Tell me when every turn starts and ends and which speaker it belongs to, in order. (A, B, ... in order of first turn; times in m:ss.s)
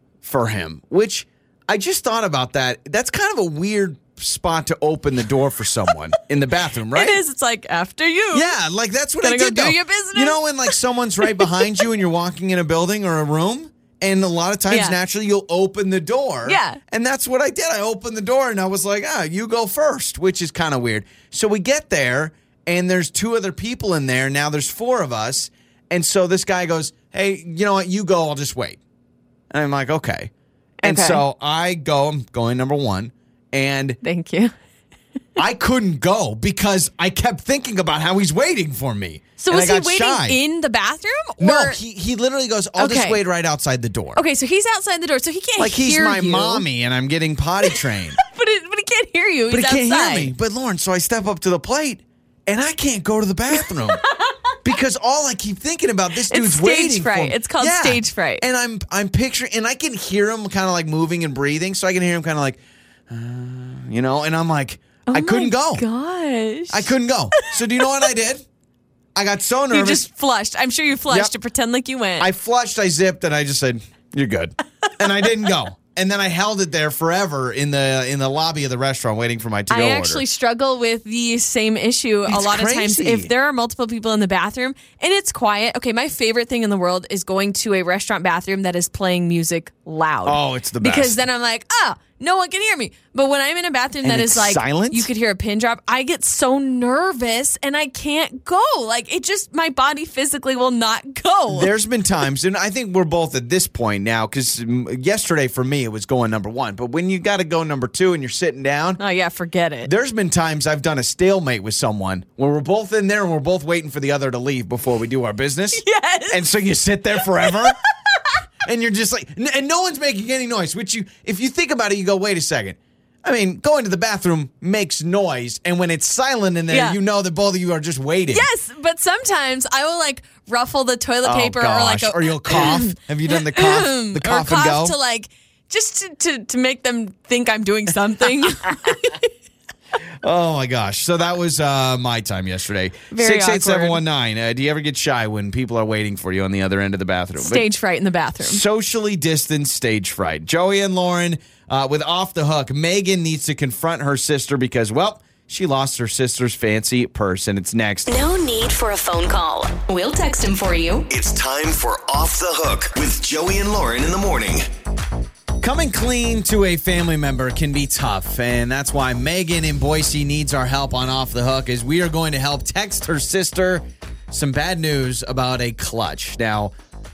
0:00.2-0:07.2 A
0:06.9-0:08.5 B
0:08.3-0:28.8 A
0:09.2-0:11.8 B
0:14.7-0:15.0 B
0:16.5-0:16.8 B
0:29.5-0:30.3 A
0:30.8-0:31.2 B
0:30.8-0:34.0 A
0:34.0-0:34.5 B
0:35.4-0:40.4 A
0:39.4-0:41.8 B
0:41.4-0:44.2 A
0:42.8-0:43.2 B
0:44.2-0:46.6 B
0:45.6-0:48.2 A
0:47.7-0:50.3 B
0:49.5-0:54.0 A
0:53.9-0:54.3 B
0:54.6-1:05.8 A
0:56.3-0:58.4 B
1:05.1-1:07.5 B
1:06.7-1:08.4 A
1:09.2-1:10.1 A
1:09.7-1:12.3 B
1:12.2-1:20.2 A
1:19.7-1:41.7 B
1:22.3-1:23.3 A
1:30.2-1:31.2 A
1:34.0-1:35.1 A
1:41.5-1:49.0 A
1:49.0-1:49.9 B
1:49.8-1:57.8 A
1:55.8-1:56.4 B
1:58.6-2:08.5 A
2:06.7-2:07.0 B
2:08.3-2:19.3 B
2:11.2-2:15.0 A
2:20.2-2:27.7 A
2:23.1-2:24.0 B
2:27.4-2:28.6 B
2:28.4-2:38.2 A
2:38.1-2:41.1 C
2:41.1-2:44.6 D
2:45.6-2:56.7 A